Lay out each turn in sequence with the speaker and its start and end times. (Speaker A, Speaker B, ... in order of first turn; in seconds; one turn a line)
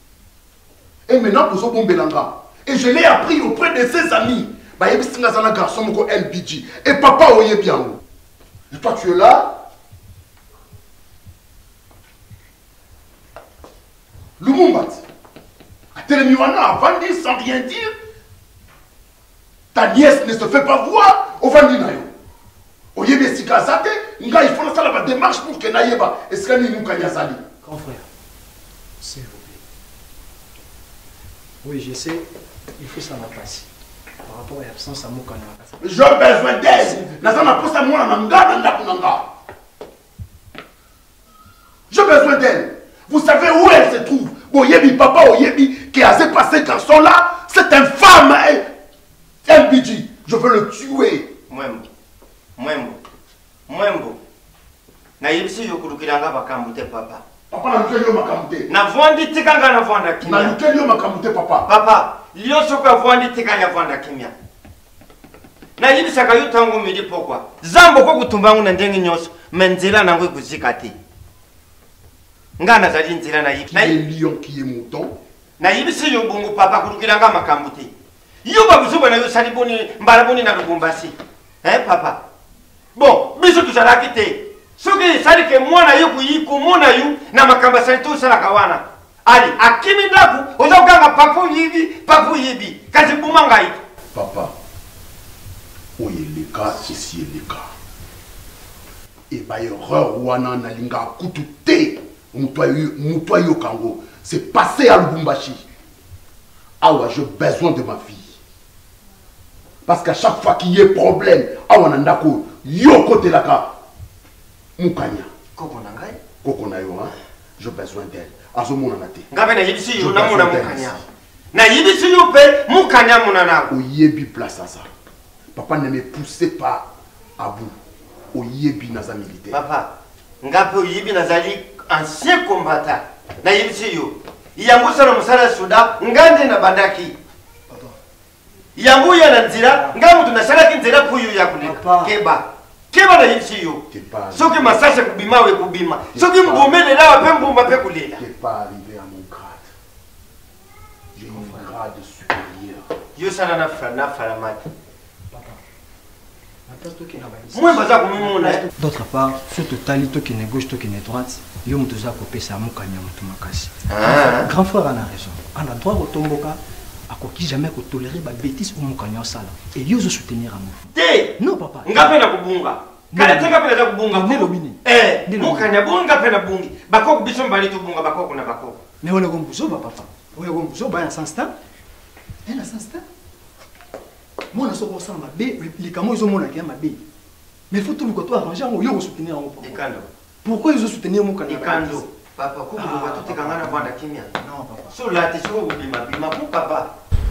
Speaker A: 1.1-8.0
Speaker A: 8.7-9.6
Speaker A: 14.4-15.0
Speaker A: 15.9-17.9
Speaker A: 19.7-22.1
Speaker A: 22.9-27.4
Speaker B: 27.7-28.0
Speaker B: 29.0-29.6
Speaker B: 31.6-32.2
Speaker B: 32.8-33.6
Speaker B: 34.3-35.7
Speaker A: 35.8-39.3
Speaker B: 36.8-37.1
Speaker A: 41.9-48.7
Speaker A: 49.5-51.3
Speaker C: 51.5-51.9
Speaker C: 52.6-53.0
Speaker C: 53.7-54.2
Speaker C: 55.2-57.2
Speaker A: 57.5-58.7
Speaker C: 58.7-60.6
Speaker A: 60.2-61.7
Speaker C: 61.7-64.3
Speaker C: 65.8-70.9
Speaker C: 72.6-74.0
Speaker A: 73.7-75.2
Speaker C: 75.6-77.9
Speaker C: 78.5-82.2
Speaker C: 83.0-93.8
Speaker A: 94.1-94.5
Speaker A: 96.0-97.7
Speaker A: 99.3-105.6
Speaker A: 106.8-108.4
Speaker A: 109.9-113.8
Speaker A: 114.8-115.3
Speaker C: 115.6-116.2
Speaker A: 116.4-119.3
Speaker C: 119.3-121.0
Speaker A: 119.9-121.0
Speaker C: 121.5-123.7
Speaker A: 123.7-124.9
Speaker A: 125.5-127.8
Speaker A: 128.3-129.6
Speaker C: 129.5-129.9
Speaker C: 130.4-137.1
Speaker C: 138.8-148.2
Speaker B: 141.8-142.0
Speaker A: 143.9-144.9
Speaker A: 146.1-149.7
Speaker A: 151.2-152.9
Speaker C: 153.2-154.6
Speaker B: 156.9-157.6
Speaker C: 157.5-158.7
Speaker B: 158.8-166.6
Speaker C: 163.9-164.5
Speaker B: 167.1-170.8
Speaker C: 170.9-178.8
Speaker B: 171.4-172.1
Speaker B: 173.1-173.6
Speaker B: 174.1-175.7
Speaker B: 179.0-181.5
Speaker B: 182.5-183.0
Speaker B: 184.5-187.0
Speaker B: 187.7-189.8
Speaker C: 189.6-190.1
Speaker B: 190.4-191.9
Speaker C: 191.4-194.3
Speaker B: 192.8-193.7
Speaker C: 194.9-196.9